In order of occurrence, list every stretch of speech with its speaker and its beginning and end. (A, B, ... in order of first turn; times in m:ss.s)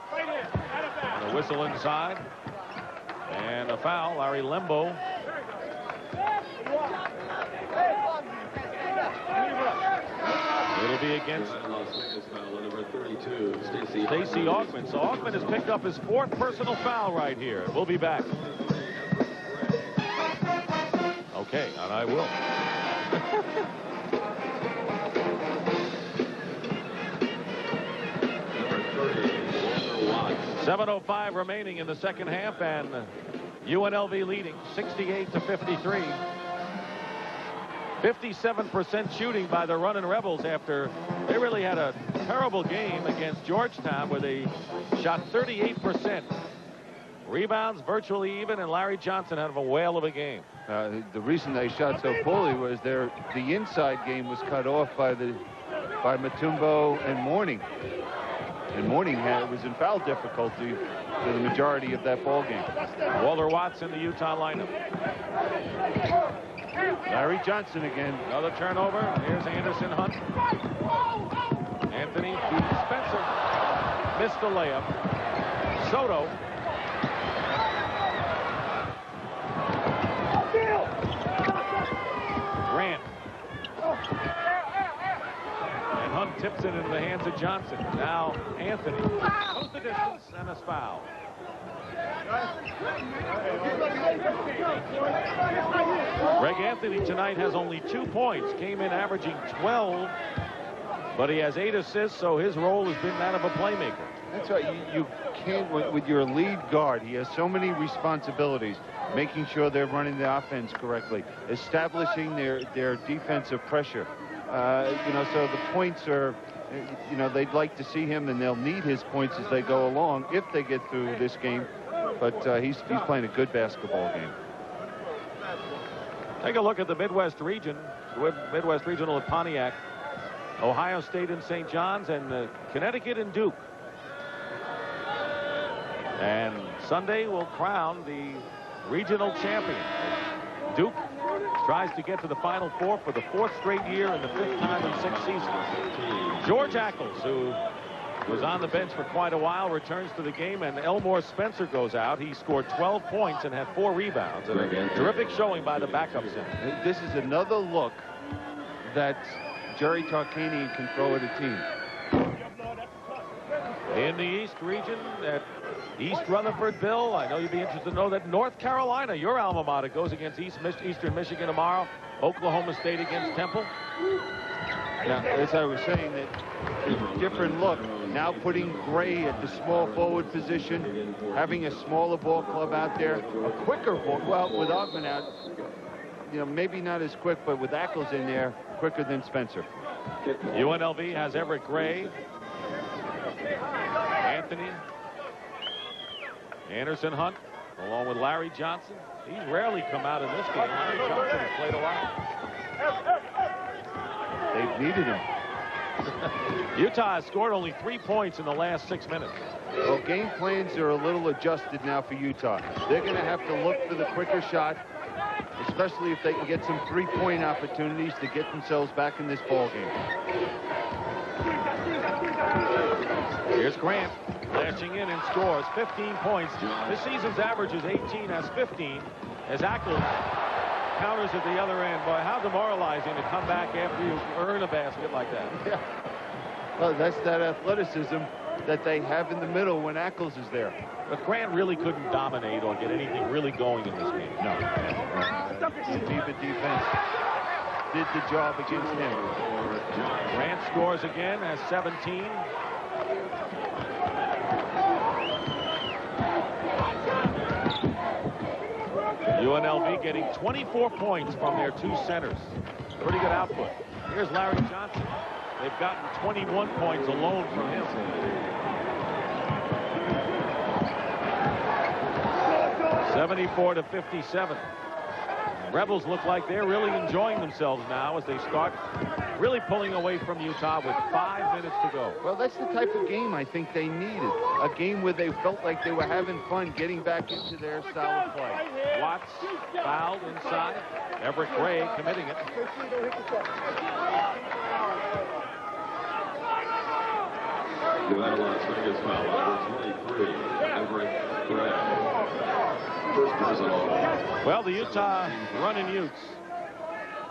0:01.1-0:02.2 A
0:03.3-0:05.0 A
0:10.7-0:11.6 A
0:11.3-0:15.7 B
0:14.0-0:18.3 A
0:18.1-0:19.9 B
0:21.3-0:22.4 A
0:28.5-0:30.5 B
0:30.5-0:33.1 A
0:33.6-0:36.2 A
0:38.0-0:46.3 A
0:47.2-0:50.5 A
0:50.7-0:55.5 C
0:56.0-0:57.7 C
0:58.7-1:02.7 C
1:03.1-1:04.7 A
1:07.1-1:08.2 C
1:08.3-1:10.2 A
1:11.9-1:13.3 A
1:14.1-1:14.9 A
1:15.8-1:16.4 A
1:22.6-1:23.1 A
1:26.0-1:31.1 A
1:36.4-1:40.2 A
1:41.2-1:44.1 A
1:44.3-2:04.4 C
2:06.4-2:09.8 A
2:10.6-2:13.6 A
2:16.2-2:20.2 A
2:20.7-2:21.0 A
2:21.6-2:25.5 A
2:24.5-2:27.2 B
2:26.4-2:27.6 A
2:28.2-2:29.0 B
2:28.2-2:36.6 A
2:34.5-2:36.5 B
2:36.6-2:38.1 C
2:38.9-2:41.7 C
2:43.9-2:45.5 A
2:46.0-2:53.7 A
2:55.0-2:56.4 C
2:56.8-3:05.7 B
2:56.9-3:05.3 C
3:06.3-3:09.7 C
3:10.2-3:12.2 B
3:10.5-3:12.2 A
3:14.2-3:14.8 A
3:16.7-3:22.1 A
3:24.5-3:25.2 C
3:26.7-3:29.4 A
3:29.8-3:34.8 C
3:35.6-3:40.0 C
3:43.5-3:50.2 A
3:46.6-3:47.2 B
3:51.0-3:55.6 A
3:56.8-4:00.8 C
4:01.1-4:04.5 A
4:04.4-4:07.0 C
4:07.9-4:09.2 C
4:08.7-4:10.6 B
4:10.3-4:12.5 A
4:19.3-4:28.0 A
4:27.1-4:28.5 B
4:33.0-4:34.7 A
4:35.6-4:38.8 A
4:39.4-4:42.2 A
4:42.2-4:48.7 C
4:48.9-4:52.4 A
4:58.0-5:02.0 B
5:03.1-5:05.8 B
5:04.4-5:06.4 A